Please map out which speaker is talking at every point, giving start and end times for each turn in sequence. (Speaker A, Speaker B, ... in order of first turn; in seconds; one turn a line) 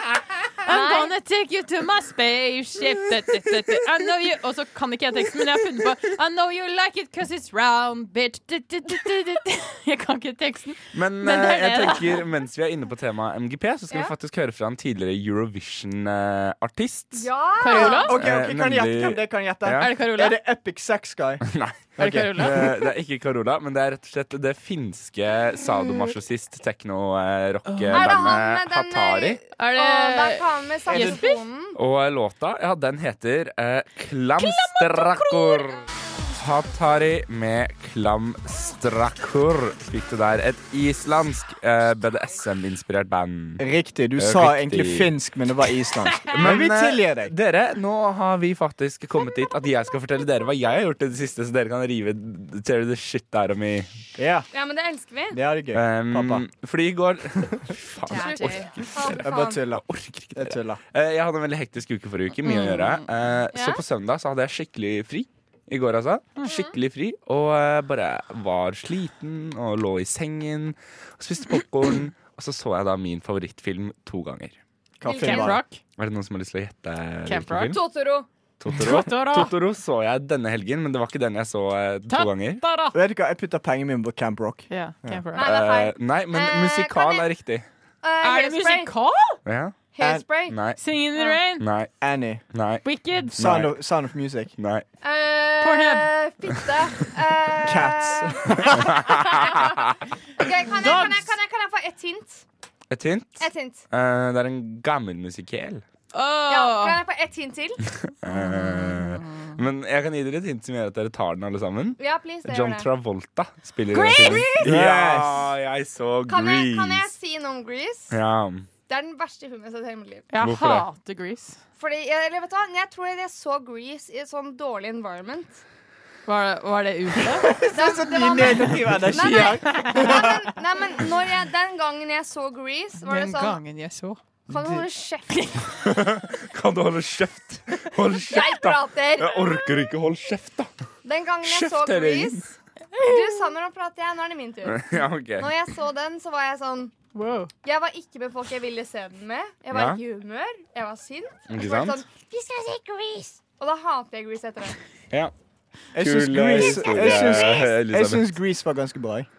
Speaker A: 0.6-12.2
Speaker B: 0.7-1.1
Speaker C: 10.9-17.3
Speaker B: 17.1-18.2
Speaker A: 17.6-18.2
Speaker D: 17.7-21.4
Speaker C: 18.2-19.9
Speaker A: 19.8-20.4
Speaker C: 21.4-29.4
Speaker D: 22.0-22.8
Speaker A: 22.0-22.8
Speaker A: 27.7-28.2
Speaker B: 27.9-31.8
Speaker A: 29.6-31.4
Speaker C: 31.8-35.8
Speaker A: 34.4-35.6
Speaker C: 36.4-43.6
Speaker D: 43.6-47.3
Speaker C: 44.1-45.1
Speaker C: 46.3-53.9
Speaker D: 54.1-54.5
Speaker B: 54.5-55.4
Speaker D: 55.3-56.4
Speaker C: 55.7-74.6
Speaker A: 58.1-58.7
Speaker B: 58.1-59.6
Speaker D: 59.1-59.8
Speaker D: 60.4-60.8
Speaker A: 62.4-63.8
Speaker A: 66.4-66.7
Speaker D: 75.0-75.6
Speaker B: 75.0-75.6
Speaker A: 75.2-75.8
Speaker C: 76.0-77.8
Speaker A: 77.2-77.8
Speaker B: 77.7-78.3
Speaker C: 78.6-82.6
Speaker A: 78.7-79.5
Speaker A: 82.1-83.0
Speaker D: 82.9-85.2
Speaker A: 84.7-85.5
Speaker B: 85.3-87.2
Speaker C: 85.4-87.7
Speaker B: 88.0-88.9
Speaker A: 88.2-89.4
Speaker C: 89.5-89.8
Speaker B: 89.9-90.5
Speaker D: 90.0-90.2
Speaker C: 90.5-90.8
Speaker A: 90.8-91.7
Speaker C: 91.6-91.9
Speaker D: 92.0-92.4
Speaker C: 92.5-93.8
Speaker A: 92.8-93.4
Speaker D: 93.4-94.5
Speaker C: 94.6-94.8
Speaker B: 95.0-99.8
Speaker A: 95.6-96.1
Speaker D: 97.6-98.9
Speaker C: 98.8-99.3
Speaker B: 100.4-102.4
Speaker A: 100.7-101.3
Speaker C: 102.9-105.8
Speaker B: 103.4-103.8
Speaker A: 106.1-107.0
Speaker B: 106.5-107.8
Speaker C: 108.2-117.1
Speaker A: 108.2-109.6
Speaker B: 112.0-112.9
Speaker A: 113.9-114.6
Speaker B: 114.2-114.5
Speaker D: 114.6-115.5
Speaker B: 116.3-118.1
Speaker C: 118.1-118.7
Speaker B: 118.9-120.3
Speaker A: 120.3-121.6
Speaker C: 120.4-120.9
Speaker B: 121.8-125.6
Speaker A: 126.2-127.5
Speaker D: 127.2-130.5
Speaker B: 127.7-133.6
Speaker A: 129.4-130.1
Speaker A: 133.0-134.2
Speaker B: 134.5-135.3
Speaker D: 134.5-134.8
Speaker A: 135.3-135.7
Speaker C: 135.8-140.7
Speaker B: 138.3-139.6
Speaker B: 141.0-142.4
Speaker C: 141.4-142.5
Speaker B: 143.0-146.9
Speaker C: 144.7-145.5
Speaker A: 147.1-147.5
Speaker B: 147.6-154.8
Speaker C: 149.7-150.0
Speaker C: 151.5-152.0
Speaker D: 155.9-159.3
Speaker C: 155.9-158.3